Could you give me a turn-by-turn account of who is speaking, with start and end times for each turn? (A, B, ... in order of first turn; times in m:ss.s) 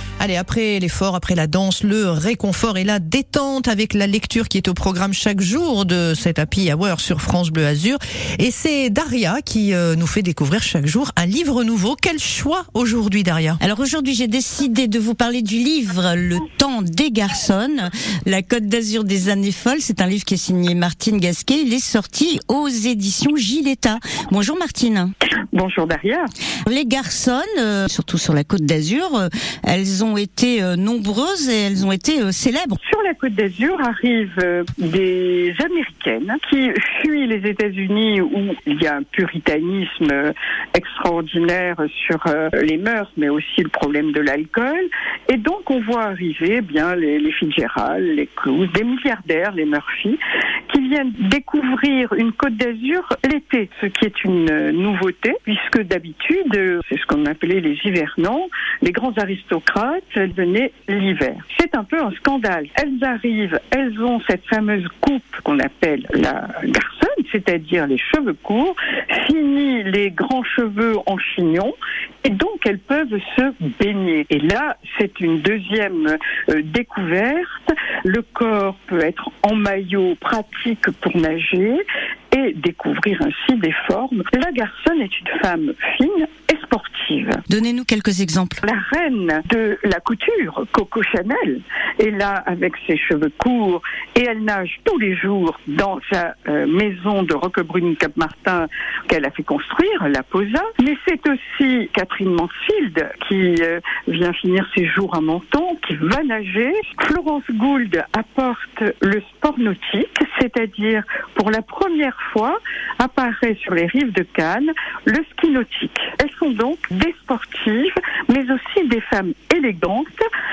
0:00.2-0:13.6 A
0:13.6-0:25.1 B
0:25.5-0:26.3 C
0:26.7-0:32.8 B
0:32.8-1:27.4 C
1:27.5-1:28.6 B
1:28.6-2:00.2 C